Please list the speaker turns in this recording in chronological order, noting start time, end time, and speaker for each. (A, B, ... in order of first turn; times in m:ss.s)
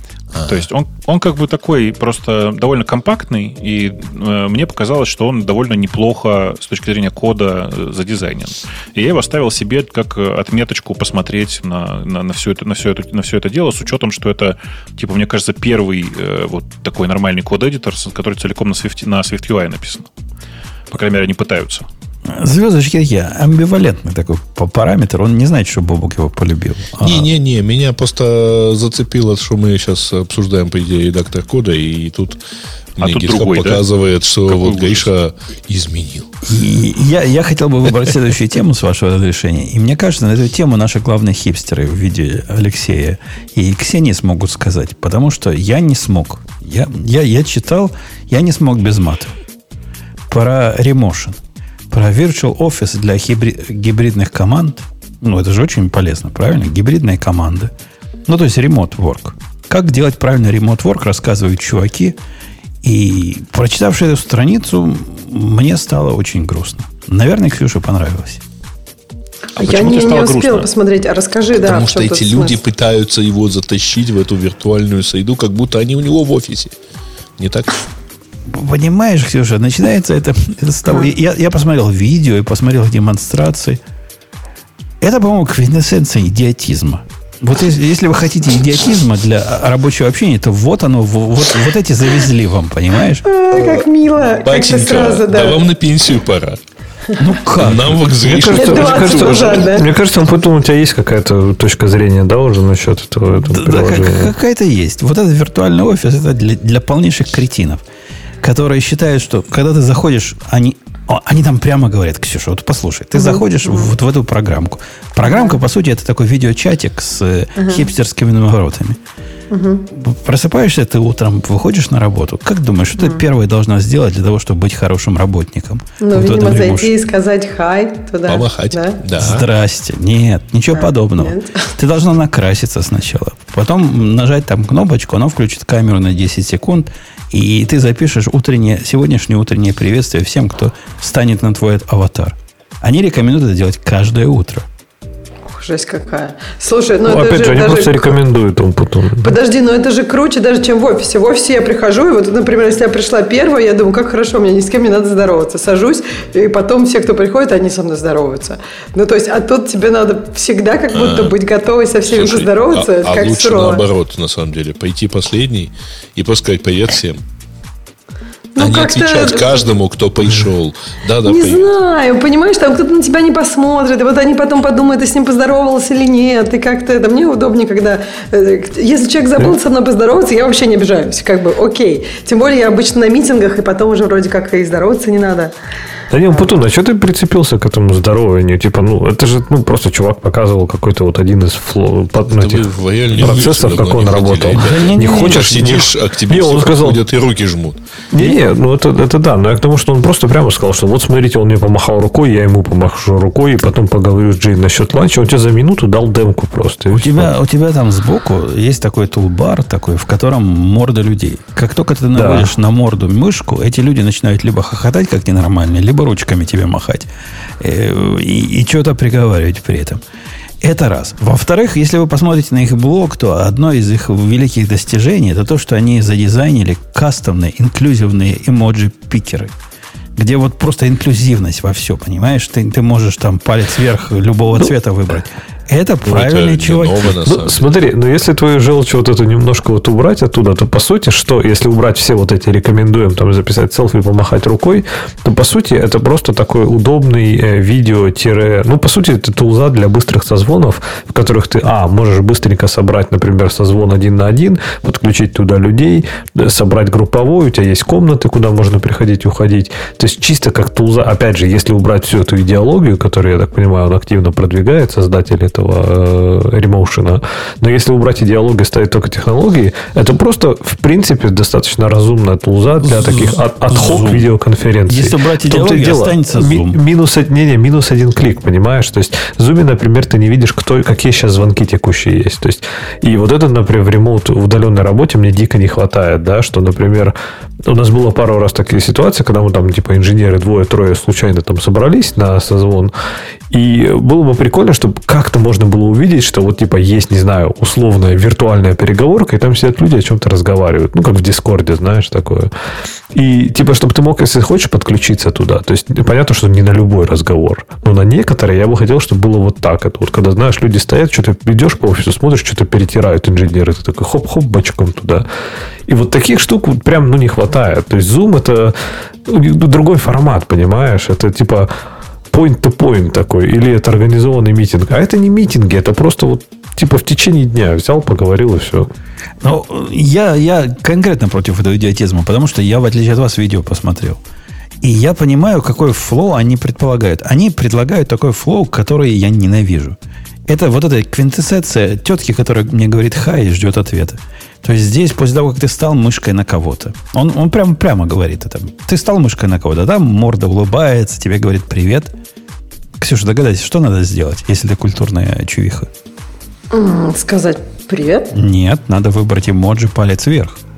0:00.3-0:00.7 A
0:00.4-0:20.1 B
0:20.9-0:21.9 B
0:22.3-0:27.3 C
0:27.0-0:32.4 A
0:33.0-0:36.4 A
0:33.0-0:33.8 B
0:34.4-0:35.1 B
0:36.4-0:49.4 C
0:50.3-0:57.7 C
0:58.3-1:02.2 C
1:02.8-1:08.4 C
1:09.6-1:10.7 B
1:09.6-1:12.6 D
1:11.6-1:16.8 A
1:17.4-1:17.7 A
1:18.5-1:23.8 C
1:25.0-1:33.2 C
1:33.2-1:35.6 D
1:33.5-1:33.9 A
1:34.4-1:36.6 A
1:37.2-1:38.8 C
1:37.6-1:39.9 A
1:38.4-1:44.3 E
1:38.6-1:39.9 D
1:43.5-1:47.8 C
1:48.4-1:59.0 C
1:53.2-1:53.9 D
1:55.2-1:55.6 D
1:57.6-1:57.8 D
1:59.5-1:59.9 D
1:59.9-2:06.9 C
2:03.0-2:03.2 D
2:06.0-2:09.0 D
2:08.2-2:09.5 A
2:09.2-2:24.7 C
2:10.7-2:11.7 D
2:25.5-2:28.2 D
2:27.0-2:29.3 E
2:29.2-2:43.8 D
2:40.9-2:41.4 A
2:42.0-2:47.2 A
2:48.6-2:49.7 D
2:48.6-2:51.7 A
2:51.2-3:05.5 D
3:06.1-3:17.0 E
3:12.3-3:17.8 A
3:14.6-3:15.8 C
3:18.1-3:27.3 E
3:26.9-3:37.1 C
3:32.1-3:32.5 E
3:37.6-3:40.0 C
3:40.6-3:49.5 C
3:50.2-3:57.2 C
3:56.0-3:57.8 A
3:57.2-4:47.2 E
4:32.8-4:34.4 C
4:34.9-4:36.8 C
4:47.7-4:52.9 E
4:53.5-5:02.5 E
5:03.1-5:15.3 E
5:15.9-5:21.7 E
5:22.3-5:28.9 E
5:29.4-5:34.2 C
5:34.8-5:52.1 C
5:53.0-5:55.9 C
5:56.7-5:58.3 D
5:58.3-6:00.6 C